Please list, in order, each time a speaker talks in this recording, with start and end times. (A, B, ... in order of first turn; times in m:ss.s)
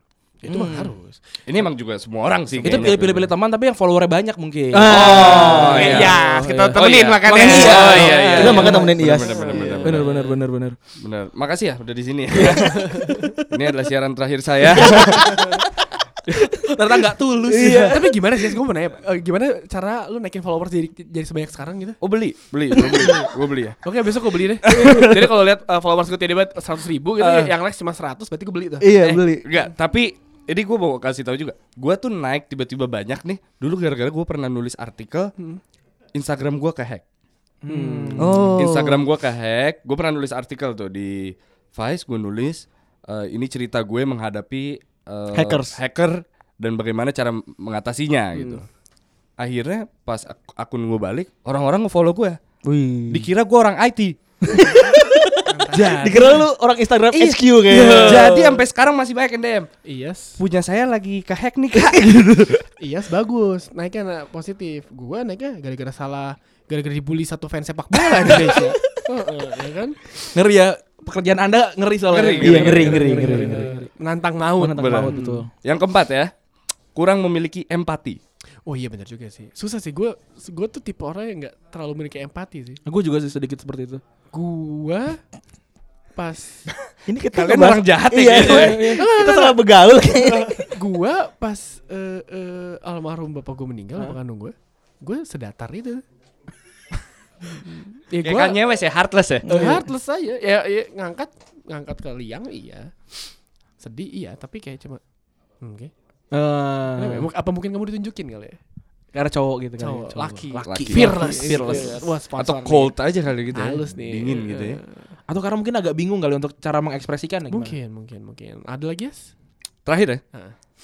0:00.4-0:01.4 A
0:00.5-0:00.9 B
0:01.4-0:03.3 C
0:02.6-0:03.0 A
0:02.6-0:09.0 D
0:04.7-0:06.2 B
0:04.8-0:06.2 C
0:05.2-0:10.4 A
0:06.8-0:10.1 C
0:08.3-0:09.7 B
0:09.8-0:10.8 D
0:11.0-0:12.9 C
0:12.5-0:13.4 A
0:13.5-0:15.6 C
0:14.9-0:15.3 D
0:16.3-0:18.1 D
0:17.5-0:18.1 B
0:17.9-0:22.0 A
0:22.0-0:23.8 C
0:22.8-0:23.2 B
0:23.8-0:28.9 A
0:24.6-0:25.3 C
0:27.2-0:27.5 C
0:28.8-0:29.4 B
0:29.0-0:35.3 C
0:36.1-0:37.0 C
0:37.6-0:38.5 D
0:37.7-0:38.1 A
0:38.2-0:39.1 B
0:38.2-0:48.6 C
0:45.3-0:45.8 B
0:48.3-0:48.6 A
0:49.4-0:52.4 C
0:52.6-0:53.3 B
0:53.1-0:54.2 C
0:54.4-0:58.5 B
0:55.4-0:56.4 A
0:57.1-0:59.7 C
0:57.8-0:58.6 A
0:59.8-1:00.4 A
1:00.4-1:02.3 C
1:01.8-1:02.6 B
1:02.8-1:10.1 A
1:08.1-1:09.0 D
1:10.2-1:13.9 D
1:12.1-1:13.1 C
1:12.4-1:13.7 B
1:13.2-1:15.4 A
1:14.6-1:15.5 D
1:14.8-1:16.3 C
1:17.0-1:18.2 C
1:18.7-1:22.8 A
1:22.8-1:24.0 D
1:24.3-1:25.2 A
1:26.1-1:26.7 A
1:27.1-1:30.8 B
1:27.3-1:29.0 C
1:28.4-1:29.2 D
1:28.5-1:29.6 A
1:30.4-1:36.0 A
1:37.5-1:38.6 A
1:38.2-1:39.5 C
1:39.4-1:39.8 B
1:39.5-1:45.0 A
1:39.5-1:39.8 D
1:45.6-1:45.9 A
1:46.3-1:47.3 D
1:47.0-1:48.6 A
1:49.1-1:52.0 D
1:49.8-1:53.0 A
1:50.6-1:54.8 C
1:53.5-1:55.1 A
1:55.3-1:57.8 D
1:57.5-1:59.3 A
1:59.9-2:00.2 C